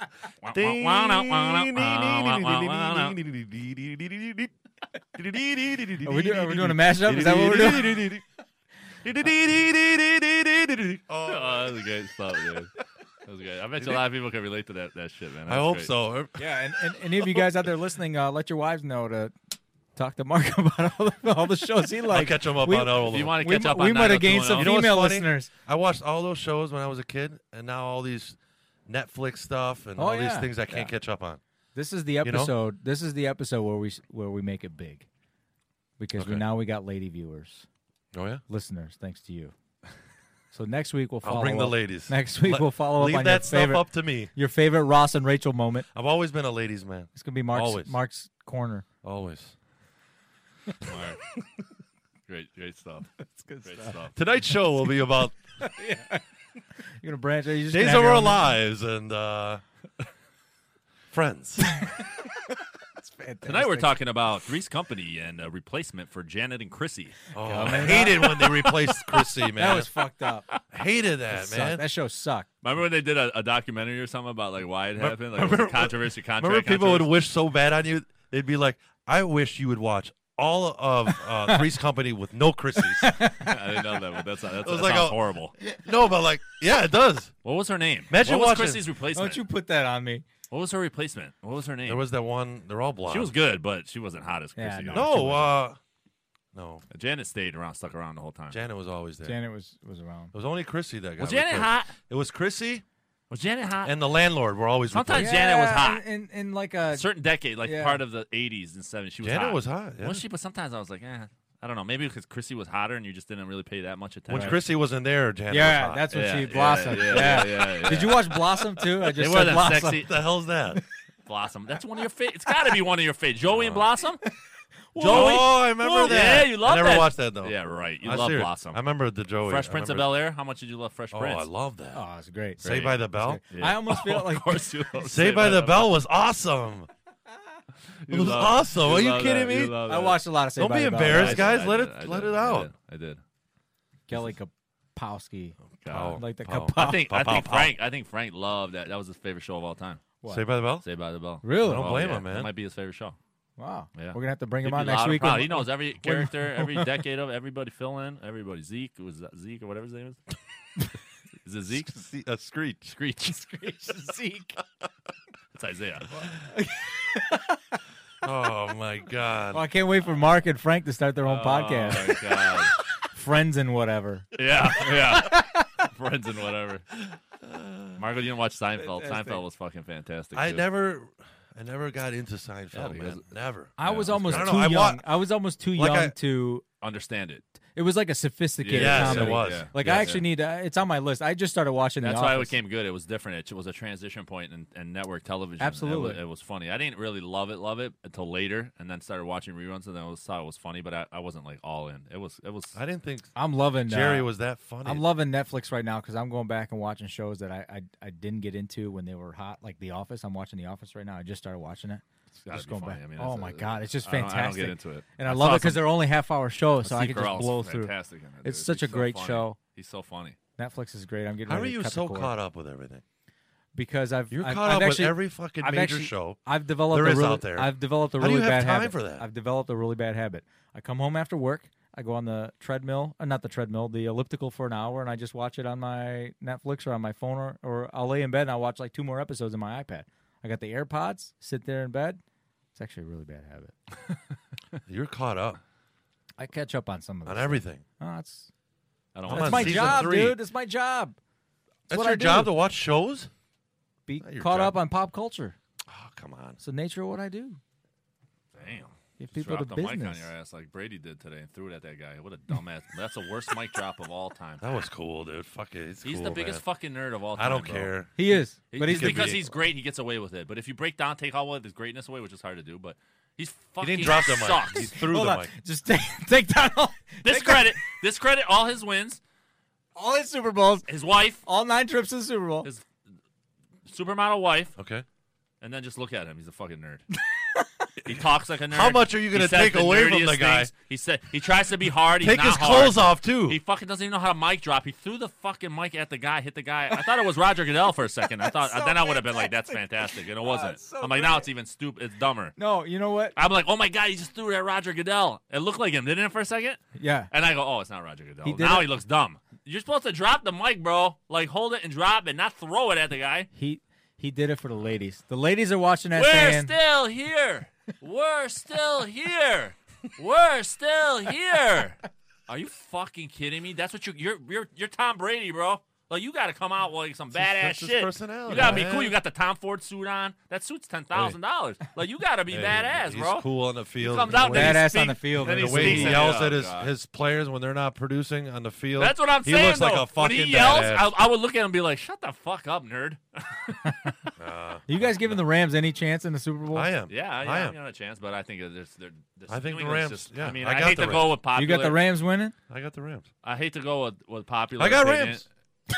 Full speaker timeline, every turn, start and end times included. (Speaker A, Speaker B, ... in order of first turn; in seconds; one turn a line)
Speaker A: 0.4-3.2
Speaker B: 0.5-4.5
Speaker B: 5.2-8.2
Speaker C: 6.0-8.0
Speaker B: 9.0-11.8
Speaker A: 11.2-12.7
Speaker A: 13.3-15.9
Speaker B: 15.5-16.4
Speaker C: 16.4-19.3
Speaker C: 20.0-25.5
Speaker B: 22.1-23.4
Speaker A: 23.1-24.7
Speaker B: 24.5-31.4
Speaker C: 30.0-30.9
Speaker C: 31.8-35.1
Speaker B: 32.2-32.5
Speaker C: 36.0-37.7
Speaker B: 36.2-36.4
Speaker B: 38.1-38.4
Speaker C: 38.5-39.5
Speaker C: 40.5-45.9
Speaker B: 41.2-44.3
Speaker B: 45.9-48.0
Speaker C: 47.1-48.9
Speaker B: 49.0-49.5
Speaker A: 50.9-51.2
Speaker A: 52.3-54.1
Speaker C: 53.2-54.0
Speaker B: 54.1-55.4
Speaker C: 55.6-56.2
Speaker C: 57.0-58.5
Speaker B: 57.7-59.6
Speaker B: 61.1-62.0
Speaker C: 63.0-63.9
Speaker A: 63.5-69.2
Speaker B: 67.3-69.9
Speaker C: 67.4-68.4
Speaker C: 69.6-70.5
Speaker B: 70.7-71.8
Speaker C: 71.3-72.5
Speaker A: 72.6-77.2
Speaker B: 75.0-83.2
Speaker C: 83.0-83.6
Speaker A: 83.5-85.5
Speaker B: 84.6-87.3
Speaker A: 87.4-89.4
Speaker B: 88.1-88.8
Speaker C: 89.1-90.2
Speaker A: 90.5-92.1
Speaker B: 91.8-93.3
Speaker A: 93.1-95.5
Speaker C: 94.6-95.5
Speaker B: 94.9-95.8
Speaker B: 96.5-96.8
Speaker A: 96.9-98.6
Speaker B: 98.5-99.3
Speaker C: 99.2-100.3
Speaker B: 100.3-102.8
Speaker A: 101.2-101.9
Speaker A: 103.3-104.0
Speaker B: 103.8-105.3
Speaker A: 104.9-106.0
Speaker C: 105.2-107.1
Speaker A: 106.9-114.7
Speaker C: 107.6-108.0
Speaker B: 109.2-110.2
Speaker B: 114.3-116.1
Speaker C: 114.3-114.6
Speaker C: 115.5-120.0
Speaker A: 116.1-120.1
Speaker B: 116.9-117.7
Speaker B: 120.0-120.8
Speaker A: 121.3-124.2
Speaker B: 123.5-123.9
Speaker C: 124.9-125.5
Speaker A: 125.0-128.8
Speaker B: 125.0-130.1
Speaker A: 129.4-131.5
Speaker B: 131.1-132.0
Speaker C: 131.9-134.7
Speaker B: 132.6-133.4
Speaker A: 132.6-135.9
Speaker B: 135.0-136.9
Speaker A: 138.0-140.2
Speaker B: 138.1-139.8
Speaker C: 139.8-141.6
Speaker B: 140.6-142.7
Speaker A: 141.1-143.2
Speaker C: 144.1-145.6
Speaker B: 145.8-147.7
Speaker A: 145.8-146.2
Speaker C: 146.2-147.1
Speaker A: 146.7-150.0
Speaker B: 150.3-150.9
Speaker A: 150.8-153.2
Speaker C: 151.4-151.9
Speaker B: 151.5-152.5
Speaker C: 153.6-157.0
Speaker A: 153.9-160.2
Speaker A: 161.4-161.9
Speaker B: 161.8-162.9
Speaker A: 162.9-163.4
Speaker C: 163.3-164.6
Speaker A: 165.5-166.2
Speaker C: 166.2-167.8
Speaker B: 168.2-169.7
Speaker C: 169.5-172.3
Speaker A: 171.3-172.7
Speaker C: 173.0-175.7
Speaker A: 174.3-176.8
Speaker B: 177.4-178.0
Speaker A: 178.0-180.6
Speaker C: 178.8-179.4
Speaker B: 180.3-185.2
Speaker A: 182.7-183.2
Speaker A: 183.8-184.6
Speaker C: 183.8-186.6
Speaker B: 185.7-186.2
Speaker A: 186.8-187.4
Speaker C: 187.8-192.6
Speaker A: 188.6-190.2
Speaker B: 188.7-190.1
Speaker A: 192.0-202.8
Speaker C: 195.6-196.2
Speaker B: 202.7-203.3
Speaker C: 203.4-204.3
Speaker B: 203.9-205.1
Speaker C: 204.8-217.9
Speaker A: 212.5-216.0
Speaker A: 216.8-220.4
Speaker C: 218.4-219.6
Speaker C: 220.6-222.3
Speaker B: 221.5-223.0
Speaker C: 223.8-242.2
Speaker B: 224.3-229.3
Speaker C: 242.8-243.7
Speaker B: 244.9-245.6
Speaker C: 246.4-248.5
Speaker B: 247.3-247.8
Speaker A: 249.2-250.2
Speaker B: 249.3-250.4
Speaker C: 249.3-251.2
Speaker C: 251.9-252.6
Speaker B: 251.9-253.3
Speaker C: 254.1-255.6
Speaker B: 254.2-254.8
Speaker B: 255.9-256.6
Speaker C: 256.6-257.6
Speaker A: 258.6-264.6
Speaker C: 259.2-260.3
Speaker B: 264.6-266.6
Speaker A: 266.0-267.9
Speaker B: 267.4-268.3
Speaker C: 268.2-269.4
Speaker A: 268.7-274.9
Speaker B: 268.8-269.5
Speaker B: 273.8-275.5
Speaker C: 274.8-277.8
Speaker A: 277.2-279.2
Speaker C: 280.0-280.9
Speaker A: 280.9-281.4
Speaker C: 281.4-282.7
Speaker A: 283.9-284.8
Speaker B: 284.8-285.1
Speaker A: 285.6-287.1
Speaker A: 288.0-302.6
Speaker B: 288.7-290.7
Speaker B: 292.2-293.6
Speaker C: 298.5-299.8
Speaker C: 300.4-301.5
Speaker C: 302.6-303.3
Speaker A: 303.4-313.5
Speaker C: 307.0-307.3
Speaker C: 308.4-308.9
Speaker C: 313.5-316.7
Speaker A: 316.1-333.5
Speaker B: 327.4-329.1
Speaker C: 328.5-328.8
Speaker B: 332.5-341.1
Speaker A: 334.0-336.9
Speaker C: 334.4-336.3
Speaker A: 339.0-344.1
Speaker B: 344.4-345.4
Speaker C: 344.9-346.9
Speaker B: 346.7-347.8
Speaker A: 347.1-352.1
Speaker B: 349.5-351.3
Speaker C: 351.5-352.6
Speaker B: 352.7-353.3
Speaker A: 353.4-355.5
Speaker B: 354.8-355.4